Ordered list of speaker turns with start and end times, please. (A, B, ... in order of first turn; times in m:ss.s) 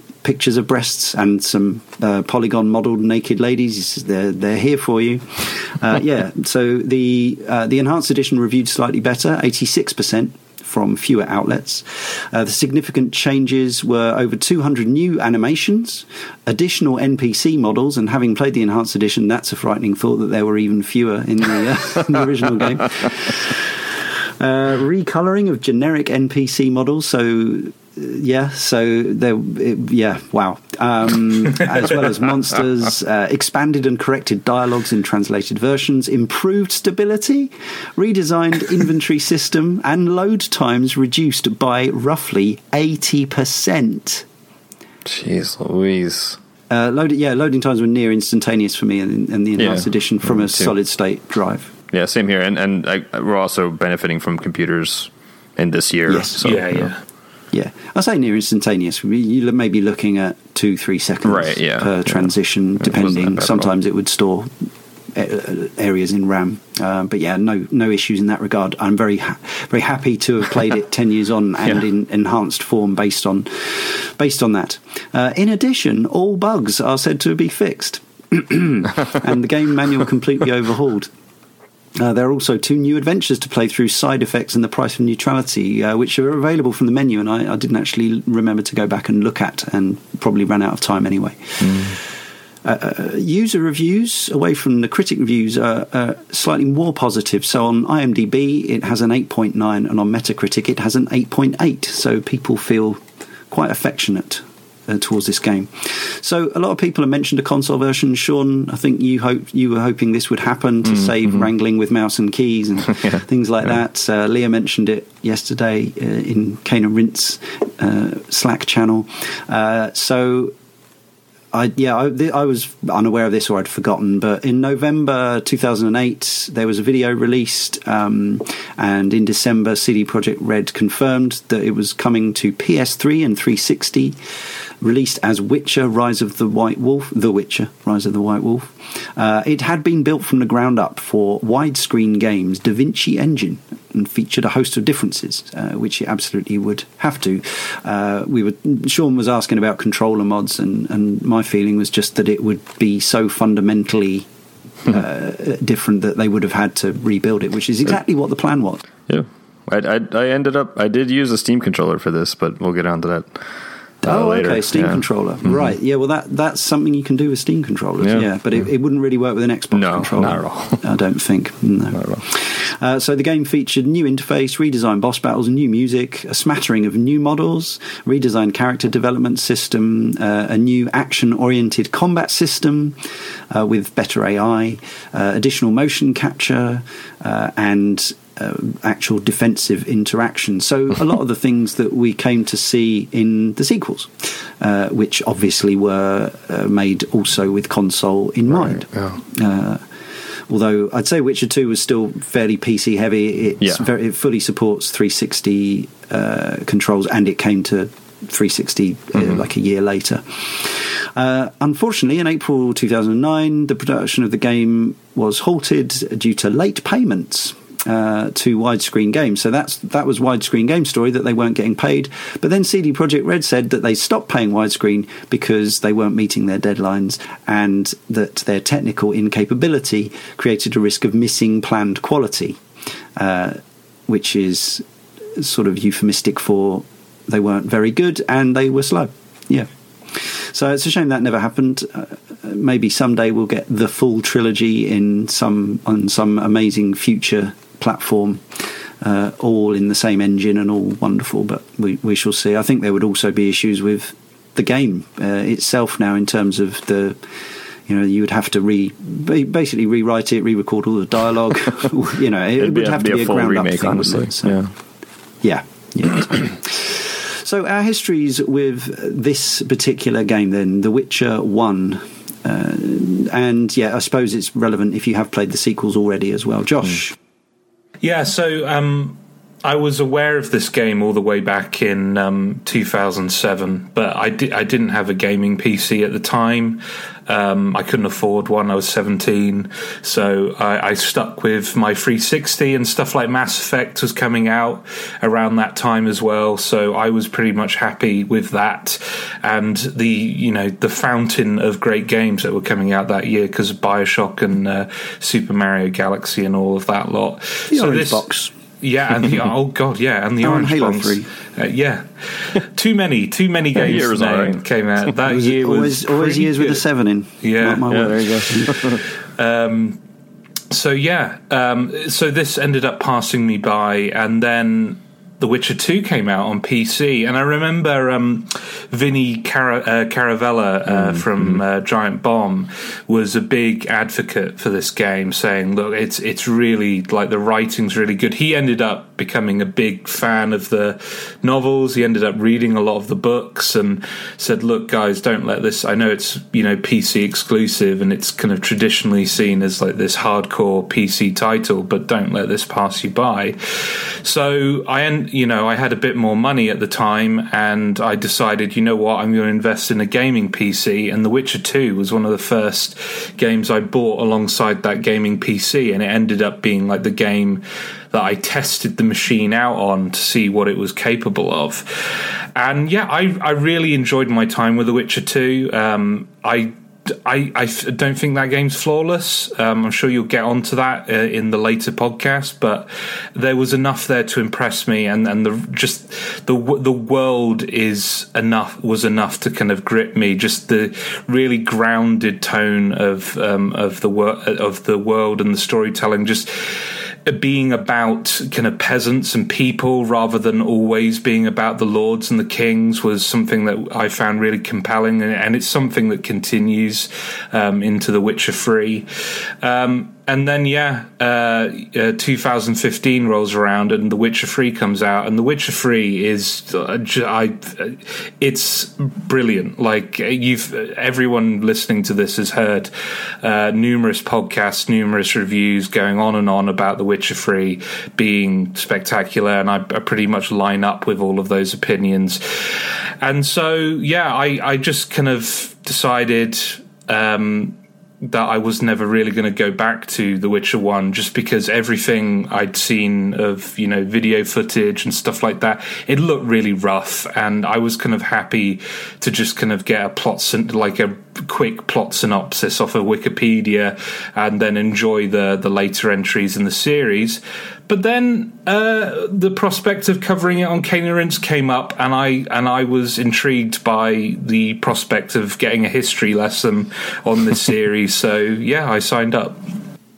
0:00.2-0:44.3 A
0:45.0-0:46.4 B
0:46.7-0:51.7 A
0:49.6-0:50.7 B
0:51.9-0:56.9 B
0:56.1-0:56.5 A
0:56.4-0:57.0 C
0:57.5-1:21.1 A
1:01.2-1:03.7 B
1:22.0-1:32.0 A
1:31.6-1:32.0 B
1:32.6-2:00.5 A
1:51.0-1:51.4 B
2:01.5-2:14.2 A
2:14.8-2:34.3 A
2:34.8-2:38.8 A
2:39.1-2:43.5 B
2:44.0-2:45.7 B
2:44.0-3:03.0 A
2:48.0-2:48.3 B
2:49.7-2:50.8 B
2:51.9-2:52.2 B
3:03.5-3:19.8 A
3:18.6-3:19.2 B
3:20.5-3:52.6 A
3:53.2-3:54.8 A
3:55.4-4:17.2 A
4:17.9-4:24.6 A
4:22.6-4:24.7 B
4:25.4-4:37.2 A
4:38.0-5:16.8 C
5:07.7-5:08.5 A
5:10.4-5:11.3 A
5:13.7-5:14.6 B
5:15.2-5:18.9 A
5:17.4-5:18.0 C
5:17.9-5:19.0 B
5:18.7-5:20.0 C
5:20.7-6:36.5 C
5:30.9-5:31.6 B
6:37.3-7:02.9 C
7:03.4-7:49.6 C